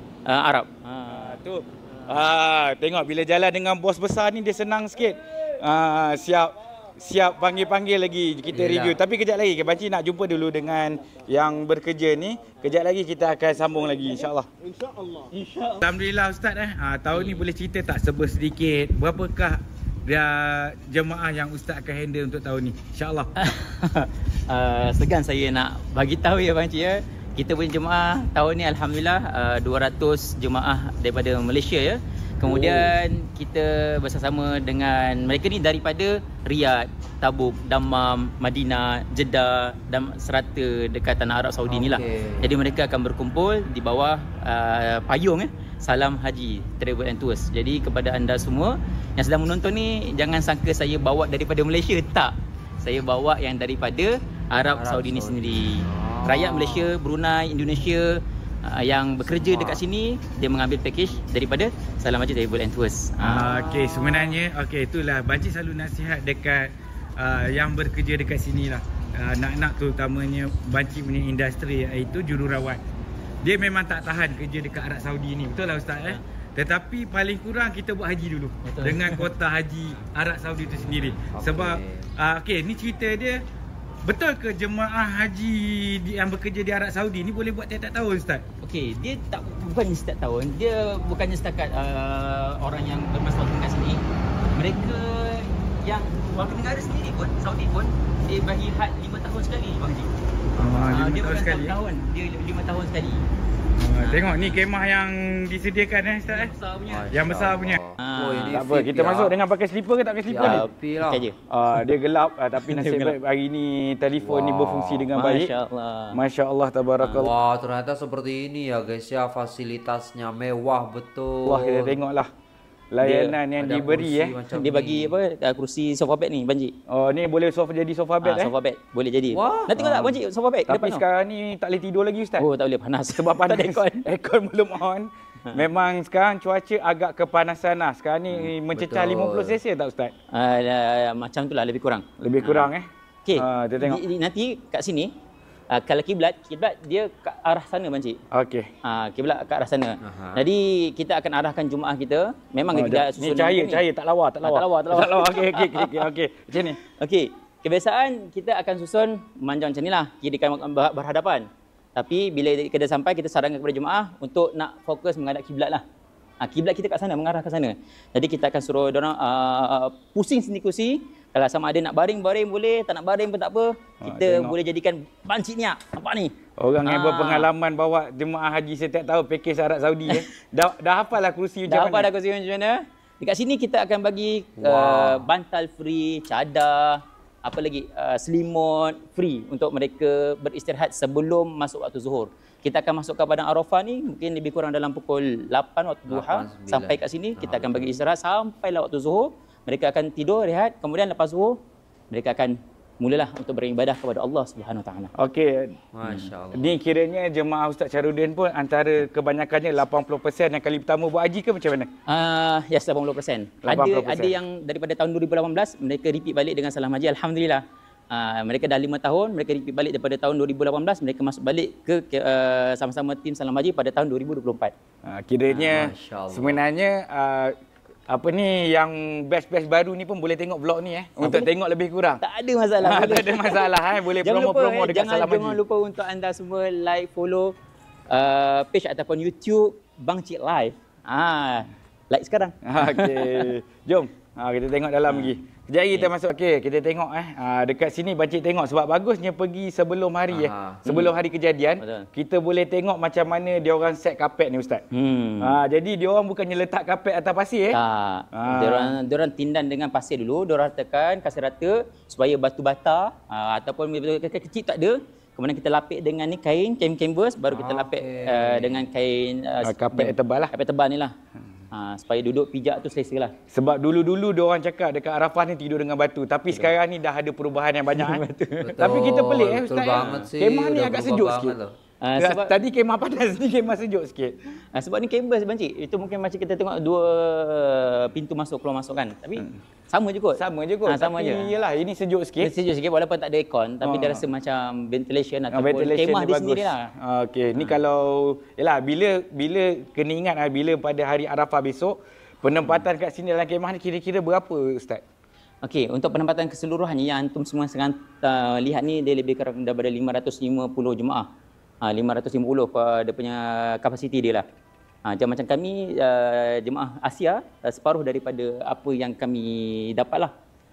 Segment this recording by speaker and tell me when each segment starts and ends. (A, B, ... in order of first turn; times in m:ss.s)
0:00.3-0:01.4 A
0:01.1-0:14.5 B
0:08.5-0:09.0 C
0:15.8-0:23.3 B
0:17.1-0:17.5 A
0:23.4-1:03.5 A
0:32.4-0:32.9 C
0:41.7-0:42.5 C
0:54.7-0:56.9 C
0:59.2-0:59.8 C
1:03.2-1:12.8 B
1:03.3-1:04.4 C
1:13.4-1:23.4 B
1:18.6-1:19.3 A
1:21.3-1:22.1 C
1:24.0-1:28.4 B
1:28.6-1:34.0 A
1:34.5-1:40.1 A
1:40.5-1:40.8 C
1:40.6-1:41.8 B
1:40.8-1:43.2 A
1:43.8-1:46.5 B
1:44.0-1:44.6 A
1:46.2-1:47.1 A
1:46.9-1:49.2 C
1:47.1-1:47.8 B
1:48.0-1:49.3 A
1:48.5-1:50.6 B
1:50.2-1:51.2 C
1:50.4-1:51.8 A
1:51.5-1:55.5 B
1:52.6-1:53.2 A
1:54.2-1:55.1 C
1:55.1-1:56.2 A
1:56.1-1:57.3 B
1:57.0-1:57.3 A
1:57.1-2:02.0 C
2:01.4-2:02.3 B
2:02.9-2:04.3 B
2:03.0-2:03.4 A
2:03.6-2:05.1 C
2:04.5-2:06.7 A
2:06.9-2:08.5 B
2:08.2-2:11.0 A
2:09.3-2:10.1 C
2:10.7-2:12.5 B
2:12.4-2:14.0 A
2:13.1-2:20.1 B
2:18.3-2:19.6 C
2:20.3-2:22.7 A
2:22.2-2:24.0 B
2:23.2-2:25.1 A
2:25.7-2:28.2 A
2:28.3-2:28.7 B
2:28.8-2:33.8 A
2:30.0-2:30.4 C
2:32.7-2:36.8 B
2:34.4-2:36.1 A
2:37.0-2:45.8 A
2:46.4-2:56.3 A
2:54.0-2:54.5 B
2:56.6-3:02.1 B
2:56.8-2:57.5 A
3:01.7-3:21.6 A
3:04.6-3:05.3 C
3:16.1-3:17.9 C
3:22.1-3:25.1 A
3:25.1-3:25.7 B
3:25.9-3:26.7 C
3:26.0-3:26.3 A
3:26.5-3:31.9 B
3:32.1-3:44.7 A
3:33.6-3:34.3 B
3:45.0-3:47.5 B
3:45.5-3:46.6 C
3:48.1-3:52.2 B
3:51.2-3:51.5 A
3:52.2-3:57.5 A
3:52.8-3:55.6 B
3:58.1-4:03.5 A
4:02.6-4:14.8 B
4:10.3-4:10.9 C
4:11.8-4:12.0 A
4:14.9-4:15.6 A
4:15.4-4:17.8 B
4:17.7-4:31.1 A
4:18.3-4:18.9 B
4:27.5-4:28.8 C
4:29.6-4:30.5 B
4:31.7-4:33.3 A
4:33.5-4:38.2 B
4:37.9-4:38.8 A
4:38.7-4:41.7 C
4:38.8-4:41.6 B
4:42.0-4:42.5 A
4:42.2-4:44.3 B
4:44.7-4:51.5 A
4:50.3-4:52.5 B
4:52.4-4:56.9 A
4:53.8-4:54.2 B
4:55.5-5:05.0 B
5:05.6-5:11.2 A
5:11.8-5:14.4 A
5:15.1-5:20.3 A